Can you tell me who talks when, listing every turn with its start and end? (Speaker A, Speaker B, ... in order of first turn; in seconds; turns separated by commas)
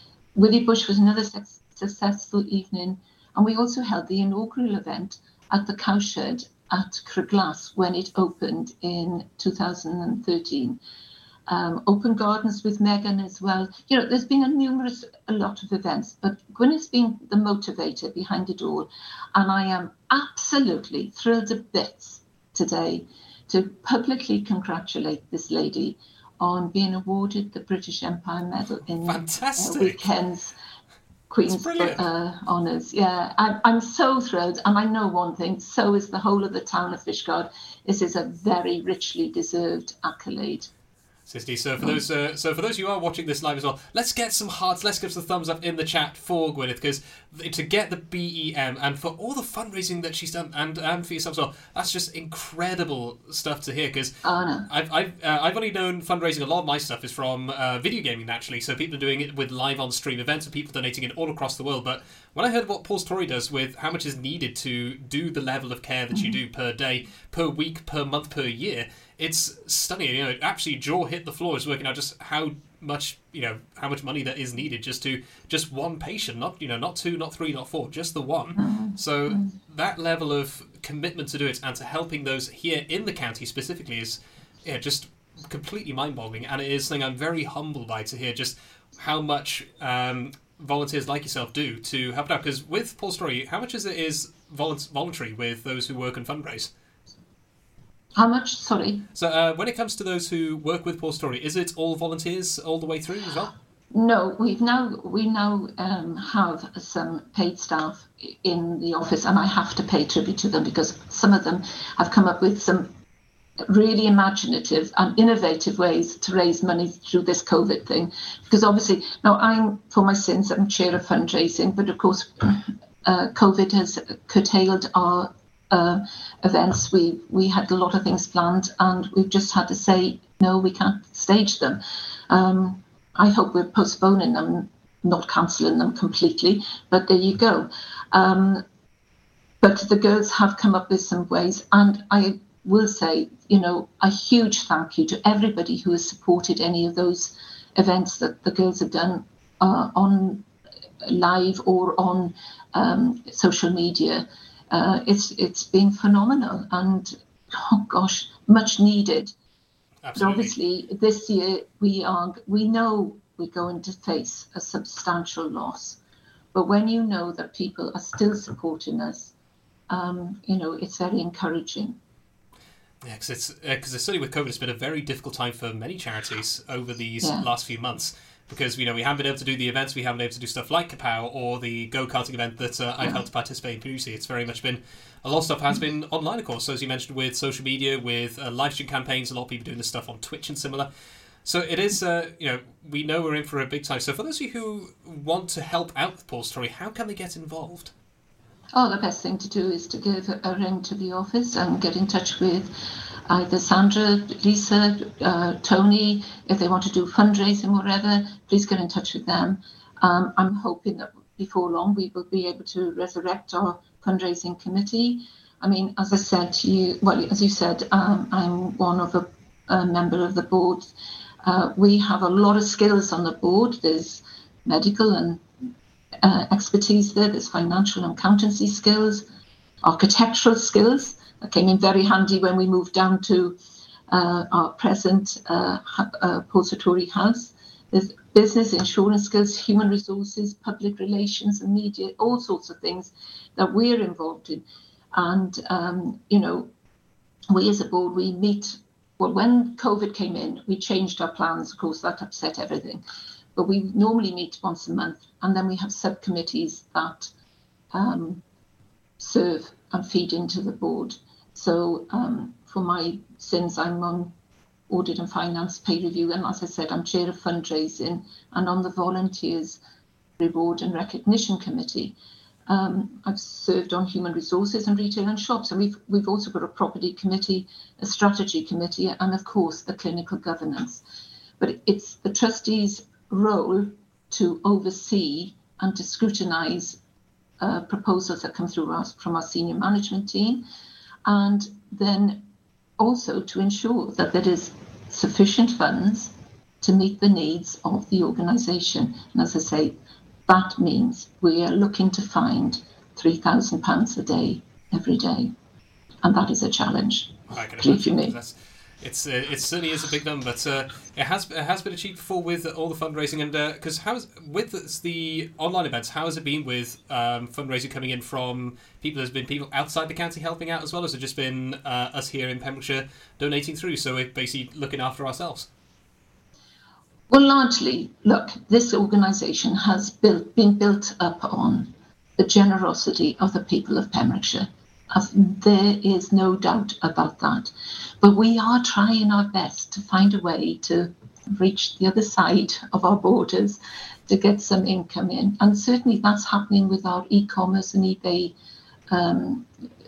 Speaker A: 0.3-10.8, Speaker A: 11.5-30.6, Speaker B: 29.0-30.1, Speaker A: 31.3-40.7, Speaker B: 31.5-32.1, Speaker B: 41.3-54.1, Speaker A: 54.2-54.7, Speaker B: 54.7-96.7, Speaker A: 78.6-79.5, Speaker A: 98.2-99.1, Speaker B: 99.2-103.5, Speaker A: 103.9-112.9, Speaker A: 113.7-138.6, Speaker A: 139.6-150.5, Speaker A: 151.0-159.3, Speaker B: 160.0-160.5, Speaker A: 160.2-166.0, Speaker A: 166.5-169.3, Speaker A: 169.9-172.0, Speaker B: 173.0-190.9, Speaker A: 177.2-177.5, Speaker B: 191.4-197.9, Speaker A: 198.7-202.7, Speaker A: 203.3-220.9, Speaker A: 221.4-225.4, Speaker A: 226.2-229.3, Speaker A: 229.8-233.6, Speaker A: 234.1-246.7, Speaker A: 247.5-253.0, Speaker A: 253.6-257.3, Speaker A: 257.9-258.4, Speaker A: 259.2-264.3, Speaker A: 264.9-269.8, Speaker A: 270.4-272.2, Speaker A: 272.7-281.0, Speaker A: 281.6-287.0, Speaker A: 287.6-290.6, Speaker A: 291.3-292.5, Speaker A: 293.0-305.5, Speaker A: 306.2-308.4, Speaker B: 307.5-325.7, Speaker A: 327.3-348.6, Speaker A: 349.1-349.7